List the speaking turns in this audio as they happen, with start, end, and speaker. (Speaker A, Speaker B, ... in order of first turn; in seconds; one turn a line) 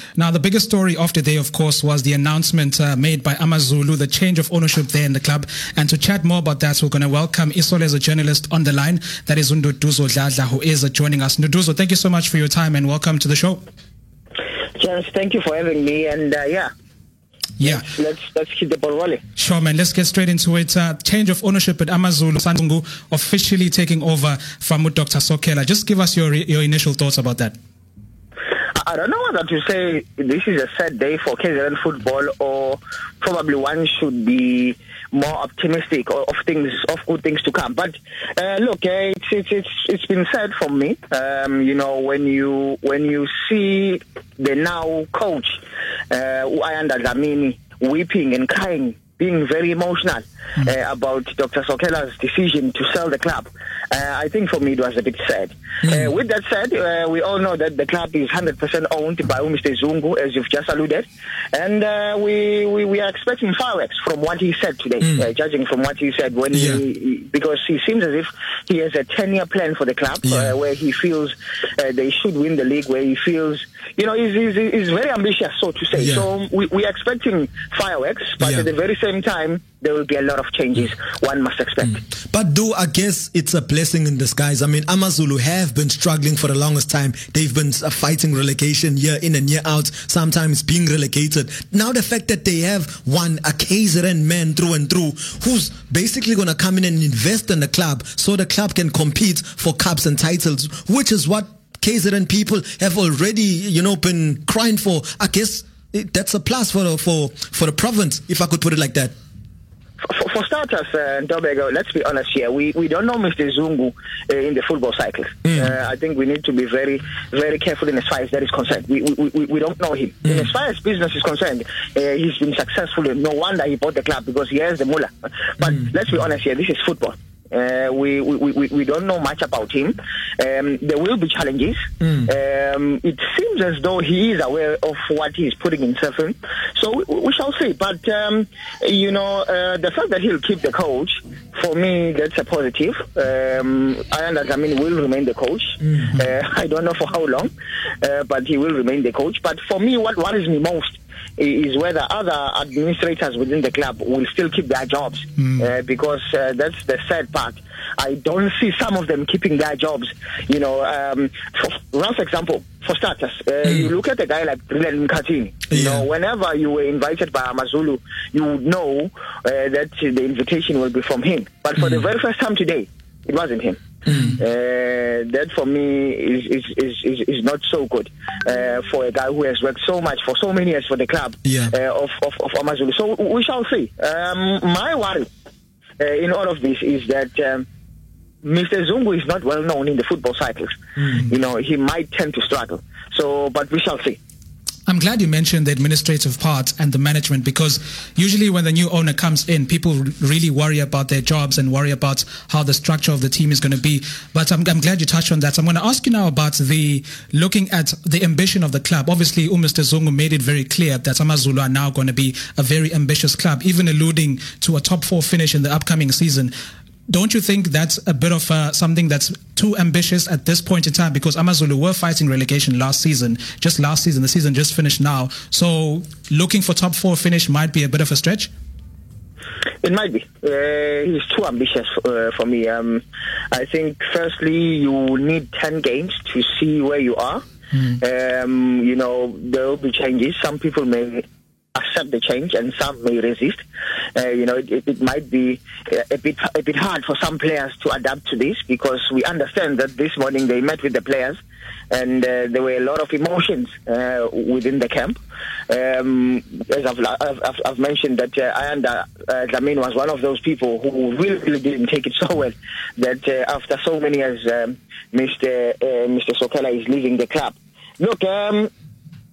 Speaker A: 0.2-13.6
Speaker B: 14.8-16.7
Speaker A: 17.6-17.9
Speaker B: 17.6-19.2
Speaker A: 19.4-27.6
Speaker B: 28.7-82.0
Speaker C: 66.5-66.8
Speaker C: 70.2-70.5
Speaker C: 76.0-76.3
Speaker C: 78.4-78.7
Speaker C: 82.0-109.1
Speaker B: 110.0-147.5
Speaker C: 132.0-132.3
Speaker B: 148.0-173.8
Speaker A: 155.4-155.7
Speaker C: 163.7-163.9
Speaker C: 165.7-166.1
Speaker C: 174.1-174.4
Speaker B: 174.3-185.3
Speaker C: 181.4-181.7
Speaker B: 186.0-187.7
Speaker B: 188.4-194.2
Speaker A: 194.9-216.5
Speaker A: 217.1-228.5
Speaker B: 229.8-237.4
Speaker B: 238.0-251.4
Speaker B: 251.9-255.2
Speaker B: 255.7-268.7